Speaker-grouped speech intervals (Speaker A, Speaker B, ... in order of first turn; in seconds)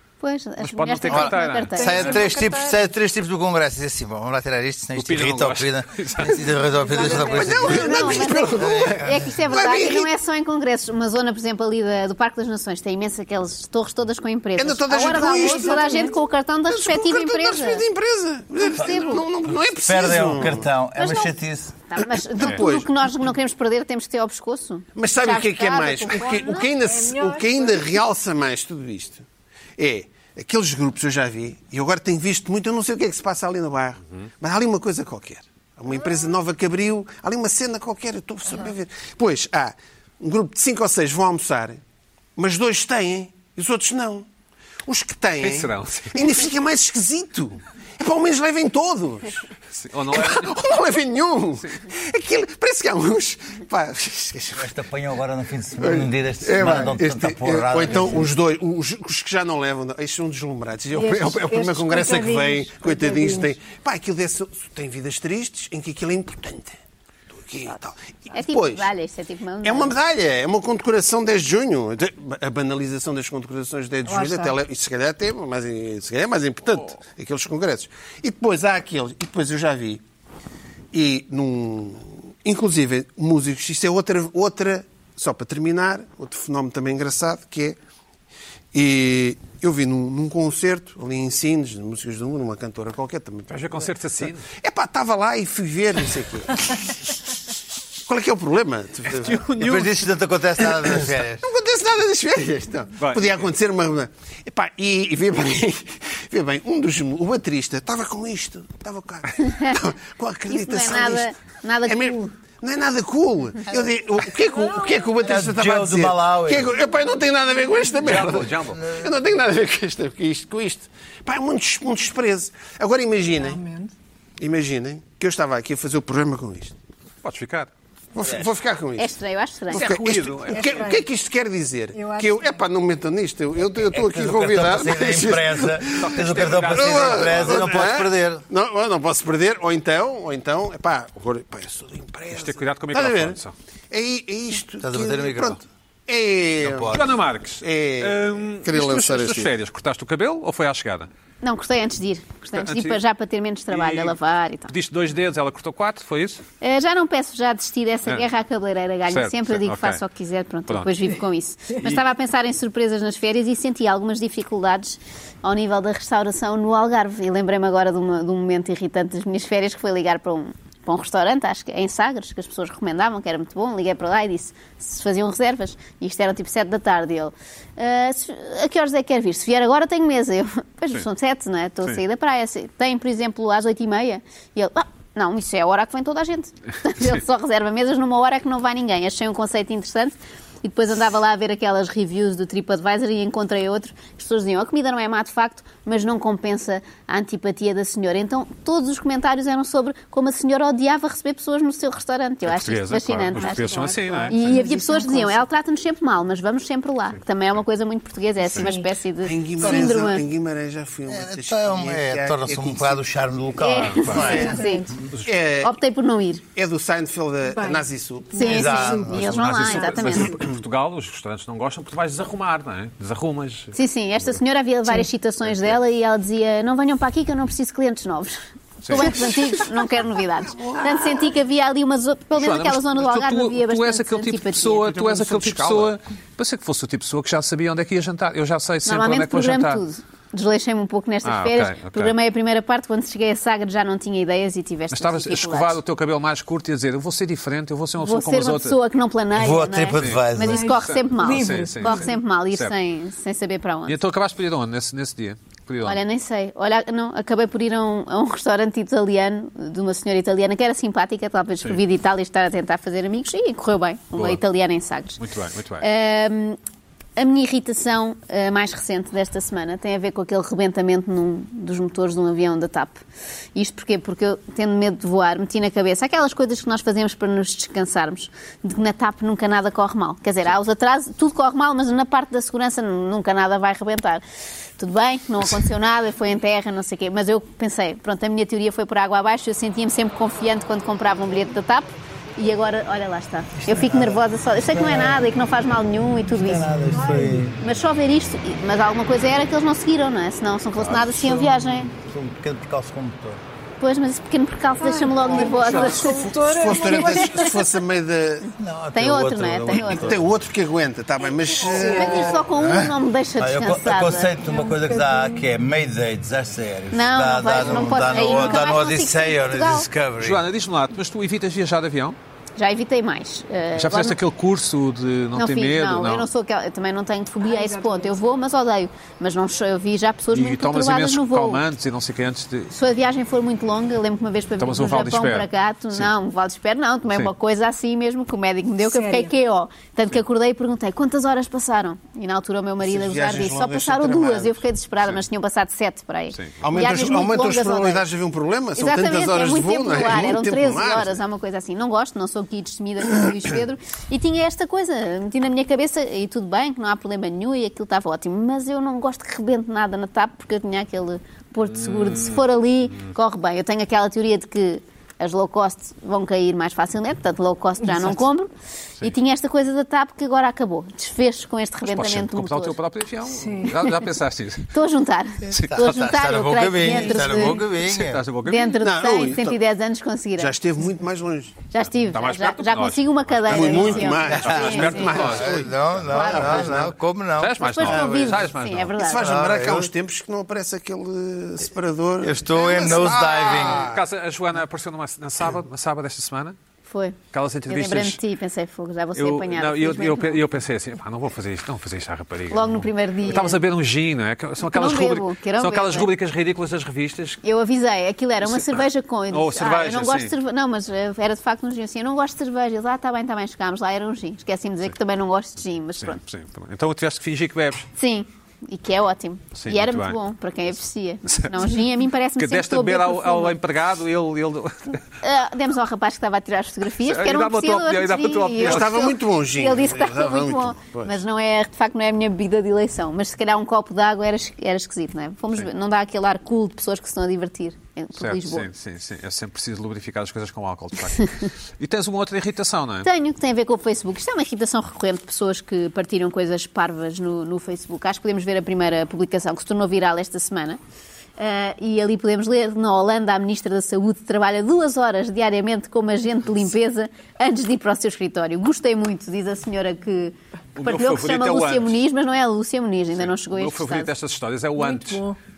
Speaker A: 0.2-2.2, 7.7-17.8, 18.6-19.2, 21.0-21.3, 21.9-26.7, 68.3-70.0, 109.5-109.7, 110.5-112.3, 129.0-130.0, 151.4-154.7, 156.6-210.2, 213.6-214.9, 215.6-216.4, 218.3-220.4, 223.7-228.3, 228.9-234.9, 238.8-245.8, 248.0-254.0, 255.8-265.2, 265.8-266.6, 267.2-273.0, 273.5-284.2, 284.8-296.7, 297.6-301.9, 303.8-307.5, 308.9-310.2, 311.7-314.3, 316.9-319.9, 322.6-324.2, 325.3-331.6, 332.7-348.0, 348.8-368.5, 369.0-372.8, 374.7-377.6, 378.4-380.5, 381.7-385.3, 386.1-386.8, 387.6-389.4, 396.9-400.4, 402.5-403.6, 404.6-406.1, 407.4-416.2, 418.0-423.6, 425.2-438.7, 443.0-450.8, 451.4-464.1
Speaker B: 0.6-2.0, 5.0-6.5, 45.4-46.4, 49.7-50.6, 93.5-94.5, 99.1-100.0, 103.0-103.5, 118.0-118.8, 127.2-127.7, 129.7-130.9, 135.9-137.8, 142.3-143.5, 146.9-151.1, 152.5-153.0, 153.7-154.1, 154.7-156.4, 159.1-160.0, 160.7-161.1, 161.7-162.0, 202.4-204.6, 213.8-214.3, 219.2-223.8, 225.4-225.8, 228.8-229.6, 232.3-239.8, 241.2-242.1, 244.9-248.8, 249.9-250.2, 250.8-252.7, 253.9-256.0, 265.2-265.9, 320.2-322.2, 323.8-326.3, 330.3-332.7, 334.6-336.1, 337.1-337.3, 346.3-346.6, 361.6-362.4, 371.8-374.7, 375.5-375.8, 377.5-378.8, 382.0-385.7, 386.5-386.8, 387.4-389.0, 393.5-396.6, 397.3-398.2, 399.1-407.4, 408.4-410.3, 416.0-417.9, 419.5-420.2, 421.3-421.8, 422.4-425.0, 427.0-429.1, 438.1-443.1, 460.7-461.9, 463.2-465.2
Speaker C: 1.1-9.3, 18.8-19.1, 19.8-21.8, 54.5-58.3, 99.5-101.4, 115.1-116.8, 118.0-119.1, 128.2-128.5, 133.8-138.4, 144.8-145.6, 146.6-147.1, 209.6-209.9, 211.1-214.6, 218.4-219.7, 249.3-250.8, 293.6-295.3, 296.3-297.6, 300.8-303.4, 308.6-310.3, 312.5-320.4, 375.7-378.2, 384.3-388.0, 389.1-389.9, 392.2-393.9
Speaker D: 1.8-2.9, 6.8-7.9, 14.9-16.1, 26.3-27.9, 60.9-63.5, 74.0-74.5, 123.3-123.9, 130.5-131.0, 131.9-132.7, 203.3-205.4, 208.5-208.9, 214.2-214.9, 217.5-219.1, 250.4-252.1, 296.9-297.4, 304.8-307.6, 311.4-312.4, 314.5-315.4, 327.4-328.4, 338.9-339.3, 367.8-368.1, 373.3-373.8, 464.8-465.4
Speaker E: 7.0-10.1, 14.6-16.2, 16.7-20.7, 22.0-23.0, 24.9-29.2, 29.8-41.8, 42.4-44.3, 44.9-49.5, 50.1-54.7, 55.8-66.8, 67.3-68.9, 69.6-80.0, 80.9-87.8, 88.7-93.9, 94.5-97.0, 98.0-99.5, 100.6-111.3, 111.8-123.6, 124.4-126.8, 128.1-129.1, 129.7-143.4, 143.9-147.0, 147.6-149.5, 209.2-213.0, 215.2-215.8, 216.5-218.6, 230.5-231.3, 234.8-235.9, 305.4-308.5, 309.8-312.4, 342.8-344.6, 346.6-351.2, 378.8-379.6, 380.4-381.6, 383.5-386.9, 387.9-394.0, 428.6-431.2